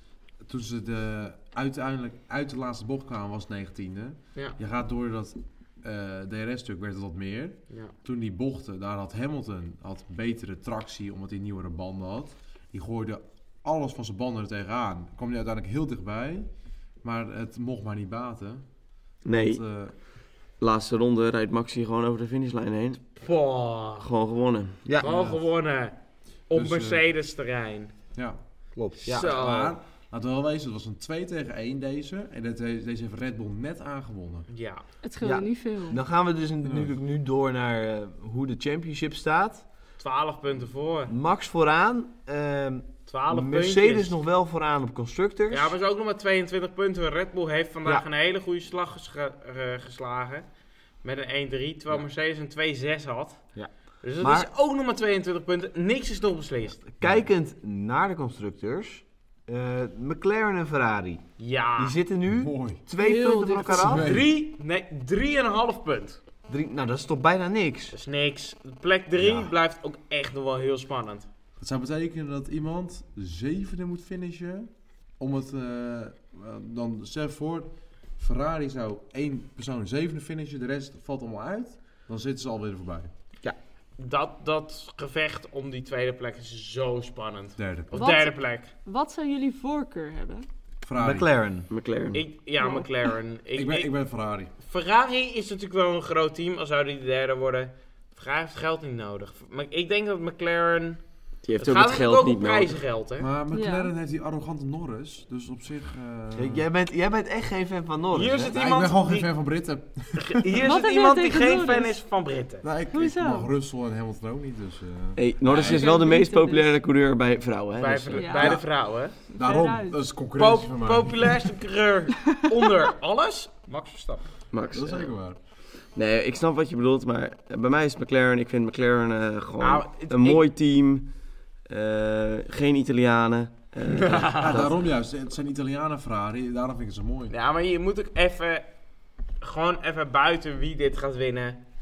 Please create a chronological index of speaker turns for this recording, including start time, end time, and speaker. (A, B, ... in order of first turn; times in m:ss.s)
0:00.4-0:16.5 A
0:17.0-0:18.7 A
0:19.2-0:19.6 B
0:19.3-0:20.0 A
0:20.6-0:23.0 B
0:23.2-0:24.1 C
0:24.0-0:24.8 B
0:25.0-0:26.0 C
0:25.0-0:25.4 A
0:26.5-0:27.9 C
0:26.5-0:27.0 A
0:28.2-0:28.4 A
0:28.8-0:29.3 D
0:29.0-0:29.8 C
0:29.1-0:34.5 A
0:34.5-0:34.8 C
0:35.0-0:36.0 E
0:35.2-0:39.6 D
0:36.6-0:36.9 A
0:40.0-0:41.1 C
0:41.1-0:45.7 D
0:43.1-0:44.2 C
0:45.5-0:50.4 C
0:51.0-0:53.5 C
0:53.6-0:54.5 D
0:54.0-0:56.8 C
0:56.9-1:01.2 D
1:01.4-1:02.0 C
1:01.8-1:04.1 D
1:02.3-1:04.3 A
1:03.0-1:03.6 E
1:03.7-1:06.2 C
1:06.5-1:08.0 D
1:07.9-1:11.3 C
1:09.2-1:09.5 A
1:11.6-1:23.1 A
1:24.0-1:28.7 C
1:27.6-1:28.1 A
1:27.9-1:30.5 E
1:30.8-1:31.3 A
1:31.0-1:31.7 D
1:31.7-1:32.2 B
1:32.1-1:33.9 C
1:32.6-1:32.9 E
1:33.5-1:34.5 A
1:34.6-1:41.0 C
1:41.4-1:42.7 B
1:41.6-1:43.3 C
1:43.2-1:46.6 A
1:43.5-1:43.9 E
1:46.4-1:48.6 D
1:48.1-1:49.3 C
1:48.5-1:50.6 A
1:50.2-1:52.6 C
1:50.6-1:52.0 E
1:52.6-1:56.0 A
1:52.9-1:53.5 E
1:55.2-1:58.4 B
1:55.5-1:56.8 E
1:57.8-1:59.2 C
1:58.1-1:58.6 E
1:59.3-2:00.0 E
1:59.4-2:01.3 A
2:00.4-2:04.3 C
2:04.5-2:05.1 B
2:04.7-2:05.4 A
2:06.0-2:11.1 B
2:09.6-2:10.4 C
2:11.7-2:14.8 B
2:13.9-2:14.7 C
2:14.3-2:17.3 A
2:17.3-2:18.7 C
2:19.4-2:21.6 C